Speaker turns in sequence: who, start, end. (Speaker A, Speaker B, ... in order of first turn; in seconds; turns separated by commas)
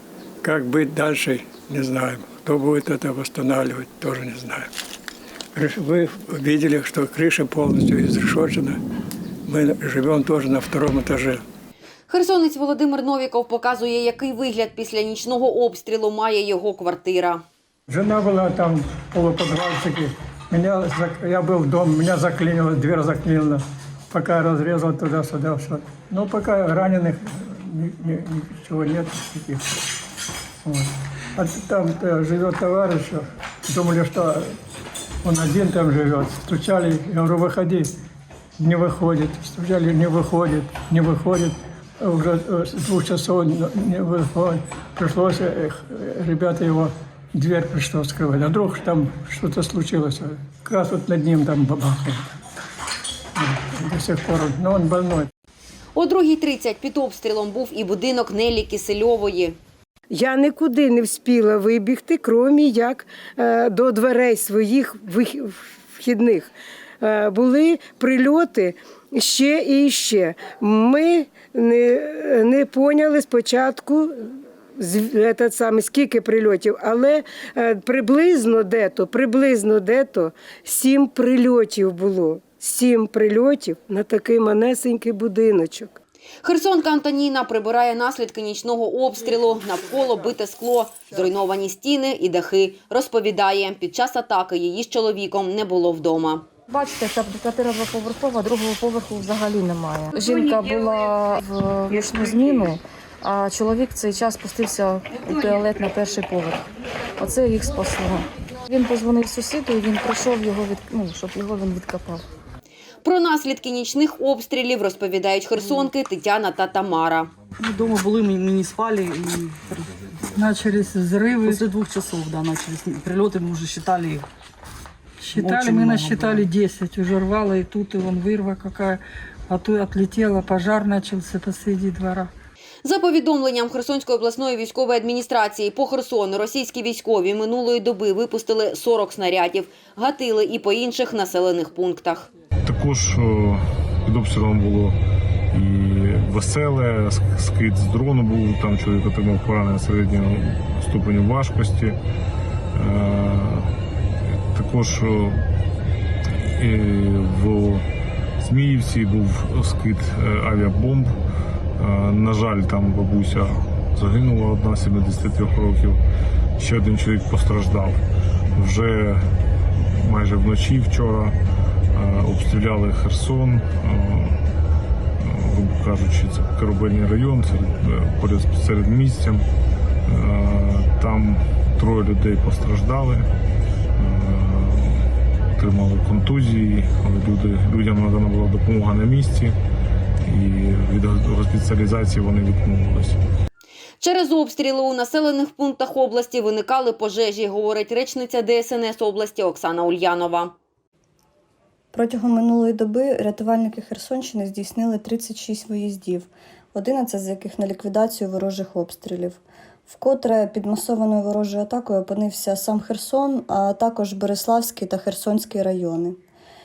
Speaker A: 0.4-4.7, Speaker A: 5.5-8.8, Speaker A: 9.5-11.4, Speaker B: 12.1-17.4, Speaker A: 17.9-29.7, Speaker A: 30.6-34.6, Speaker A: 35.2-37.9, Speaker A: 38.6-52.3, Speaker A: 53.4-55.3, Speaker B: 56.0-59.6, Speaker C: 60.1-74.2, Speaker C: 74.8-86.0, Speaker B: 86.4-96.5, Speaker D: 96.7-106.7, Speaker E: 100.4-101.0, Speaker E: 101.9-102.7, Speaker D: 107.2-112.2, Speaker B: 113.0-117.3, Speaker E: 117.6-120.2, Speaker F: 120.3-121.6, Speaker E: 121.3-124.3, Speaker F: 125.2-132.3, Speaker E: 125.3-126.5, Speaker B: 132.8-142.3, Speaker G: 142.7-145.0, Speaker G: 145.5-152.0, Speaker G: 152.7-153.7, Speaker G: 154.5-155.4, Speaker G: 156.3-157.8, Speaker G: 158.4-161.1, Speaker G: 161.8-166.0, Speaker G: 166.6-168.0, Speaker G: 168.6-169.2, Speaker G: 169.8-171.4, Speaker G: 171.9-174.4, Speaker G: 175.2-179.4, Speaker G: 180.1-183.3, Speaker G: 184.0-189.6, Speaker G: 190.2-193.2, Speaker B: 194.0-200.6, Speaker H: 201.9-216.2